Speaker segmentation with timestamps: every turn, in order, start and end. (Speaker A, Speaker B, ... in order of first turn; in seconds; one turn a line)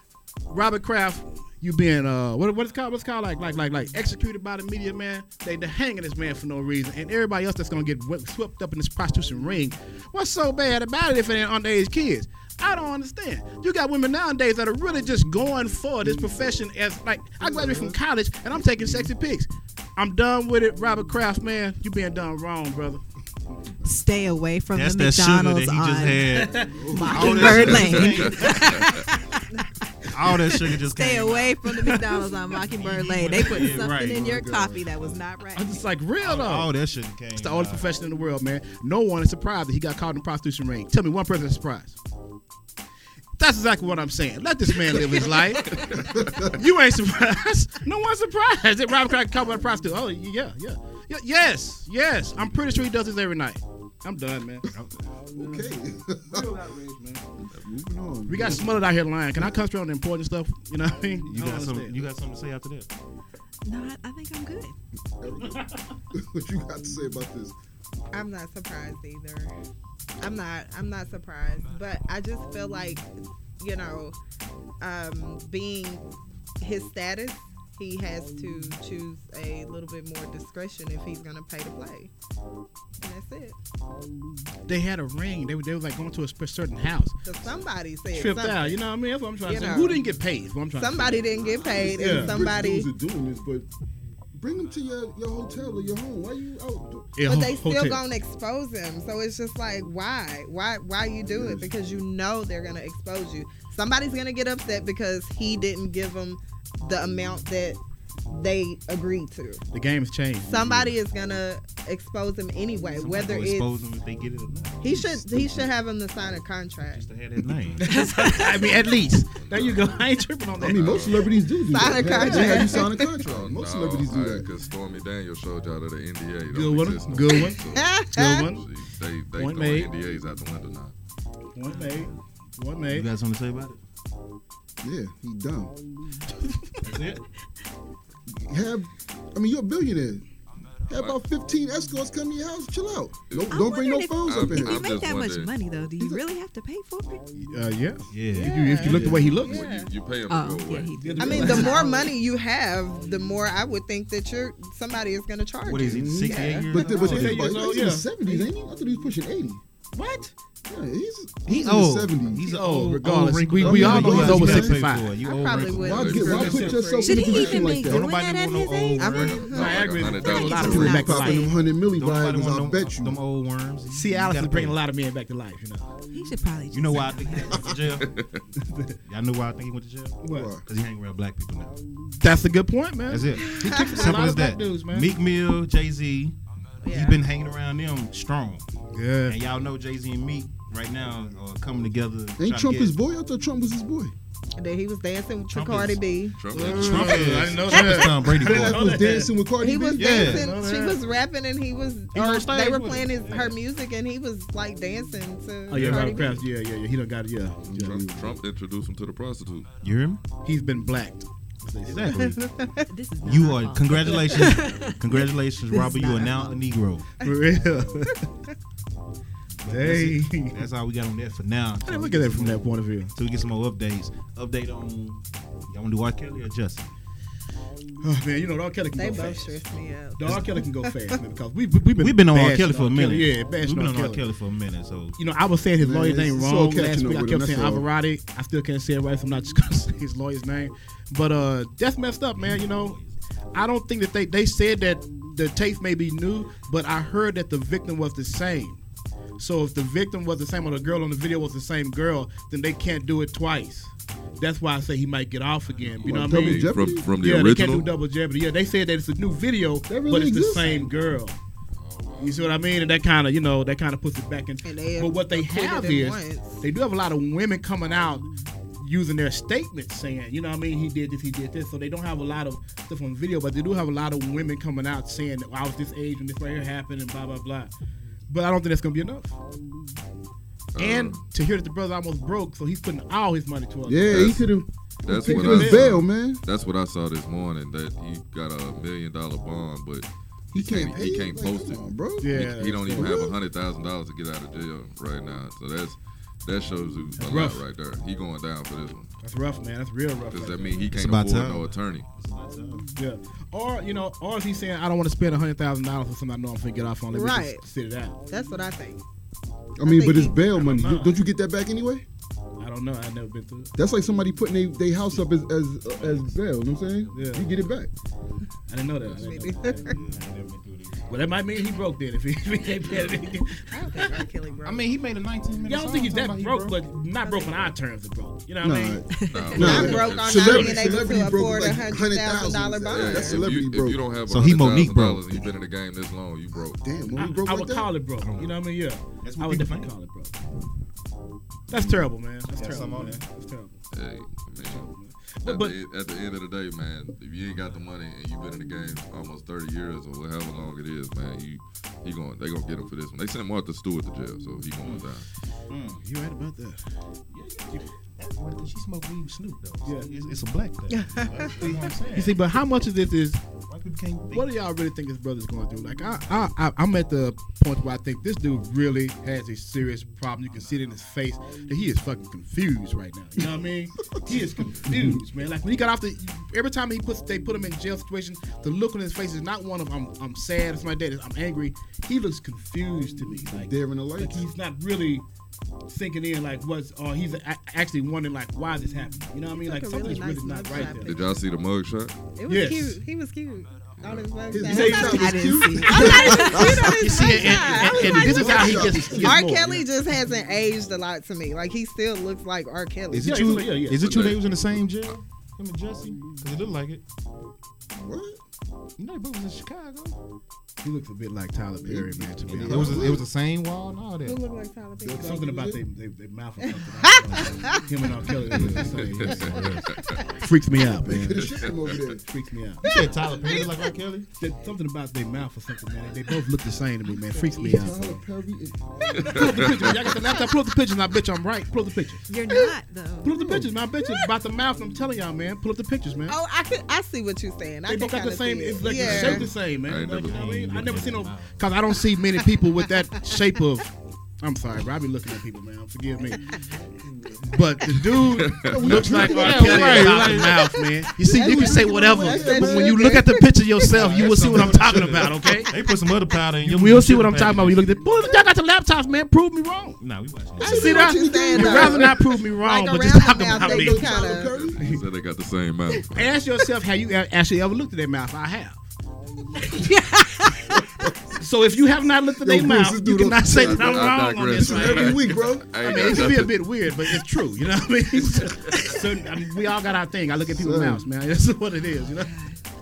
Speaker A: 0.5-23.0
Speaker B: 16.0-16.4
Speaker B: 17.4-18.0
Speaker B: 18.8-19.1
Speaker C: 23.8-26.3
Speaker D: 24.7-29.0
Speaker A: 26.3-28.2
Speaker B: 26.8-27.5
Speaker C: 26.9-35.9
Speaker E: 27.6-29.0
Speaker D: 30.1-31.8
Speaker A: 31.8-32.2
Speaker D: 32.8-34.3
Speaker B: 34.0-35.1
Speaker A: 35.5-36.7
Speaker D: 36.2-37.9
Speaker A: 37.4-42.0
Speaker A: 43.4-54.7
Speaker E: 45.7-46.5
Speaker B: 45.9-46.5
Speaker B: 55.3-56.5
Speaker A: 55.4-55.7
Speaker A: 56.3-57.2
Speaker B: 57.4-58.8
Speaker A: 58.3-62.0
Speaker D: 61.3-62.9
Speaker C: 63.6-64.8
Speaker B: 65.2-67.5
Speaker A: 65.5-65.8
Speaker F: 68.1-69.5
Speaker F: 70.2-73.1
Speaker F: 73.6-74.2
Speaker F: 74.8-76.0
Speaker F: 76.6-82.1
Speaker F: 83.0-83.6
Speaker A: 84.7-87.2
Speaker F: 87.2-88.8
Speaker A: 88.1-92.4
Speaker F: 89.4-90.0
Speaker F: 90.7-92.9
Speaker B: 91.4-93.7
Speaker B: 94.3-97.2
Speaker A: 97.2-98.0
Speaker F: 97.2-109.6
Speaker B: 101.2-101.7
Speaker A: 109.7-110.8
Speaker F: 110.4-113.7
Speaker D: 113.0-115.0
Speaker F: 114.8-117.0
Speaker B: 115.0-115.7
Speaker D: 116.9-117.9
Speaker A: 117.8-121.2
Speaker C: 117.9-118.6
Speaker E: 119.3-120.0
Speaker B: 120.6-124.5
Speaker E: 120.6-121.2
Speaker F: 121.6-123.1
Speaker A: 122.0-122.8
Speaker E: 123.2-130.9
Speaker A: 126.5-128.6
Speaker F: 127.7-128.5
Speaker A: 129.4-129.9
Speaker A: 131.6-133.1
Speaker D: 132.9-133.8
Speaker B: 134.8-135.7
Speaker A: 136.4-137.0
Speaker D: 136.8-137.2
Speaker B: 138.3-140.2
Speaker B: 140.9-144.8
Speaker E: 143.3-143.7
Speaker C: 143.5-147.3
Speaker E: 144.2-145.5
Speaker A: 147.4-149.6
Speaker D: 148.1-149.3
Speaker F: 148.3-149.9
Speaker E: 149.2-151.1
Speaker C: 150.3-152.1
Speaker A: 151.0-152.1
Speaker F: 151.2-156.7
Speaker D: 155.6-157.5
Speaker B: 155.8-159.6
Speaker A: 156.8-158.5
Speaker F: 160.0-160.3
Speaker B: 160.7-162.4
Speaker D: 161.5-166.6
Speaker A: 162.4-165.1
Speaker B: 163.6-164.8
Speaker F: 165.2-167.6
Speaker B: 165.8-168.1
Speaker E: 165.8-166.6
Speaker A: 166.2-166.9
Speaker C: 167.0-169.5
Speaker D: 167.7-169.5
Speaker F: 169.0-170.8
Speaker E: 169.1-171.3
Speaker A: 169.5-171.4
Speaker C: 170.2-171.6
Speaker B: 170.5-173.2
Speaker D: 171.9-174.8
Speaker A: 173.9-175.9
Speaker C: 176.1-177.8
Speaker D: 176.7-178.1
Speaker E: 178.0-178.4
Speaker A: 178.7-178.9
Speaker D: 179.1-181.7
Speaker A: 180.2-180.5
Speaker B: 180.3-180.6
Speaker A: 182.2-185.1
Speaker D: 183.1-188.7
Speaker F: 186.8-187.2
Speaker A: 188.9-189.4
Speaker D: 189.2-192.9
Speaker B: 192.4-194.1
Speaker F: 194.6-196.4
Speaker D: 195.5-196.0
Speaker E: 196.4-197.3
Speaker D: 196.5-199.0
Speaker A: 196.5-199.3
Speaker B: 198.4-200.4
Speaker F: 199.6-206.4
Speaker D: 200.0-200.5
Speaker A: 200.1-201.0
Speaker D: 202.1-203.6
Speaker A: 205.7-208.0
Speaker D: 205.7-206.2
Speaker B: 207.7-208.3
Speaker E: 207.7-209.7
Speaker D: 209.8-210.2
Speaker A: 210.4-212.3
Speaker D: 211.9-212.4
Speaker F: 212.1-212.9
Speaker C: 212.9-216.6
Speaker D: 213.2-217.1
Speaker A: 217.2-218.2
Speaker D: 219.6-226.9
Speaker A: 219.7-220.6
Speaker A: 221.8-223.1
Speaker A: 228.0-229.6
Speaker F: 228.9-231.1
Speaker A: 230.2-234.2
Speaker D: 232.0-235.2
Speaker A: 235.2-243.0
Speaker B: 235.8-237.9
Speaker D: 242.4-243.2
Speaker A: 243.5-248.8
Speaker A: 249.4-261.4
Speaker B: 256.0-257.1
Speaker E: 256.0-257.9
Speaker B: 259.9-260.9
Speaker E: 261.8-262.5
Speaker A: 262.2-268.3
Speaker F: 264.6-266.6
Speaker A: 268.8-277.7
Speaker A: 278.3-279.4
Speaker E: 280.8-281.2
Speaker A: 280.8-284.5
Speaker B: 283.9-286.4
Speaker E: 284.1-284.4
Speaker E: 285.0-299.1
Speaker A: 285.1-286.0
Speaker B: 290.5-293.4
Speaker A: 292.2-293.1
Speaker A: 297.2-297.6
Speaker A: 299.2-300.9
Speaker E: 300.3-302.1
Speaker D: 300.9-302.9
Speaker A: 303.0-308.2
Speaker F: 307.1-307.6
Speaker F: 308.3-309.0
Speaker B: 309.8-312.1
Speaker F: 309.8-310.4
Speaker D: 310.5-311.2
Speaker A: 312.6-313.7
Speaker B: 313.8-317.9
Speaker D: 316.0-316.4
Speaker A: 317.1-317.5
Speaker D: 317.2-317.5
Speaker A: 318.7-320.2
Speaker F: 319.1-320.0
Speaker D: 319.8-321.1
Speaker A: 321.1-324.2
Speaker F: 323.7-324.9
Speaker D: 324.6-326.8
Speaker A: 325.6-329.1
Speaker F: 327.2-327.6
Speaker B: 328.6-334.0
Speaker C: 329.1-329.7
Speaker E: 329.3-331.1
Speaker F: 329.5-333.4
Speaker A: 329.6-330.0
Speaker E: 332.9-336.9
Speaker D: 334.3-335.5
Speaker B: 336.6-337.9
Speaker A: 337.1-340.4
Speaker D: 338.2-338.6
Speaker D: 339.2-339.9
Speaker A: 341.7-343.8
Speaker D: 341.8-343.2
Speaker E: 343.9-344.9
Speaker A: 344.6-345.8
Speaker E: 345.4-355.2
Speaker D: 355.7-356.0
Speaker A: 355.9-356.8
Speaker D: 357.3-362.4
Speaker F: 360.9-361.8
Speaker A: 361.6-363.4
Speaker D: 363.7-364.6
Speaker A: 364.3-385.2
Speaker B: 374.1-375.2
Speaker B: 383.4-384.5
Speaker A: 385.9-391.2
Speaker F: 389.6-391.4
Speaker E: 390.8-392.3
Speaker F: 392.4-403.7
Speaker A: 392.5-393.0
Speaker E: 394.0-394.4
Speaker B: 394.5-397.0
Speaker A: 394.6-395.4
Speaker C: 394.8-397.0
Speaker A: 395.9-399.9
Speaker D: 397.2-397.6
Speaker B: 397.6-399.4
Speaker D: 403.1-407.0
Speaker A: 403.2-404.3
Speaker E: 404.1-404.5
Speaker B: 407.9-408.4
Speaker D: 409.0-410.2
Speaker A: 410.8-413.2
Speaker B: 411.8-413.2
Speaker D: 412.5-414.4
Speaker F: 414.2-415.4
Speaker B: 415.0-415.8
Speaker A: 415.2-419.7
Speaker F: 416.6-417.8
Speaker D: 418.5-420.0
Speaker E: 418.7-420.2
Speaker F: 420.0-420.3
Speaker A: 420.3-421.6
Speaker B: 421.0-422.2
Speaker E: 421.4-422.1
Speaker A: 422.2-422.9
Speaker D: 422.8-424.3
Speaker F: 423.2-423.9
Speaker A: 424.4-428.2
Speaker B: 427.4-429.6
Speaker E: 429.1-430.1
Speaker A: 429.2-432.3
Speaker C: 432.3-433.5
Speaker A: 433.2-436.4
Speaker B: 433.4-433.7
Speaker F: 436.3-439.5
Speaker A: 437.9-446.5
Speaker E: 438.9-440.8
Speaker D: 440.1-441.6
Speaker B: 446.8-450.4
Speaker A: 447.5-455.7
Speaker E: 448.2-449.2
Speaker D: 449.0-450.7
Speaker B: 451.2-453.2
Speaker F: 451.2-453.4
Speaker D: 453.8-457.9
Speaker A: 456.6-460.0
Speaker D: 460.0-461.1
Speaker B: 460.6-462.2
Speaker F: 460.6-464.5
Speaker A: 460.6-465.0
Speaker B: 463.5-464.8
Speaker E: 464.4-466.4
Speaker A: 466.1-468.9
Speaker C: 469.6-470.8
Speaker A: 471.4-482.4
Speaker B: 472.4-476.3
Speaker E: 473.5-477.2
Speaker E: 478.4-478.9
Speaker B: 480.5-481.1
Speaker C: 482.0-482.6